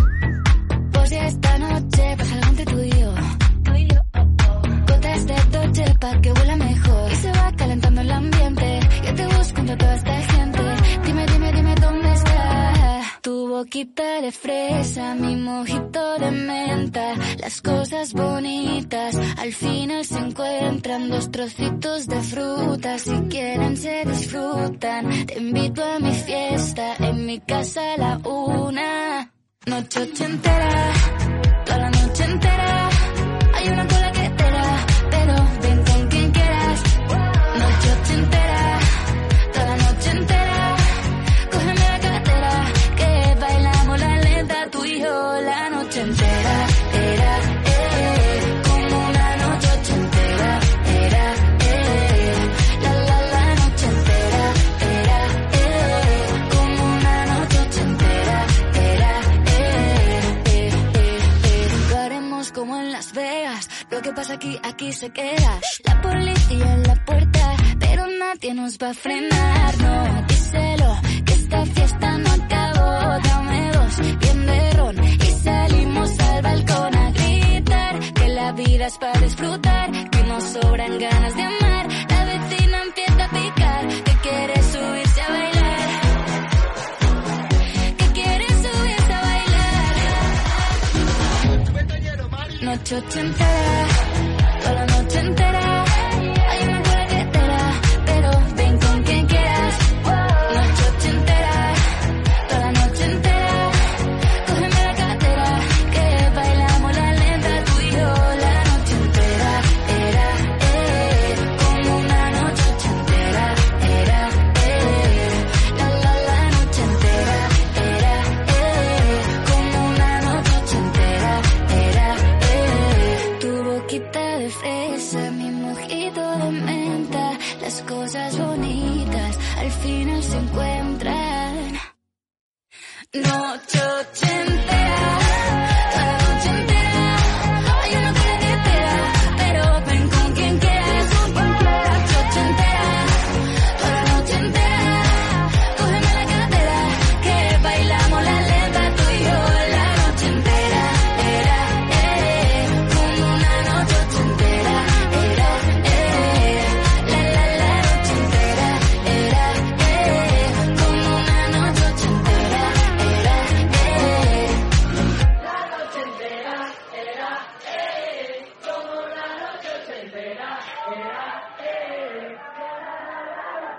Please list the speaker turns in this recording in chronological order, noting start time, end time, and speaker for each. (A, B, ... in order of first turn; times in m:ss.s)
0:00.9-1:26.1 A
1:27.9-1:30.4 A
1:32.5-1:34.0 A
1:34.6-2:11.8 A
2:13.1-2:44.7 A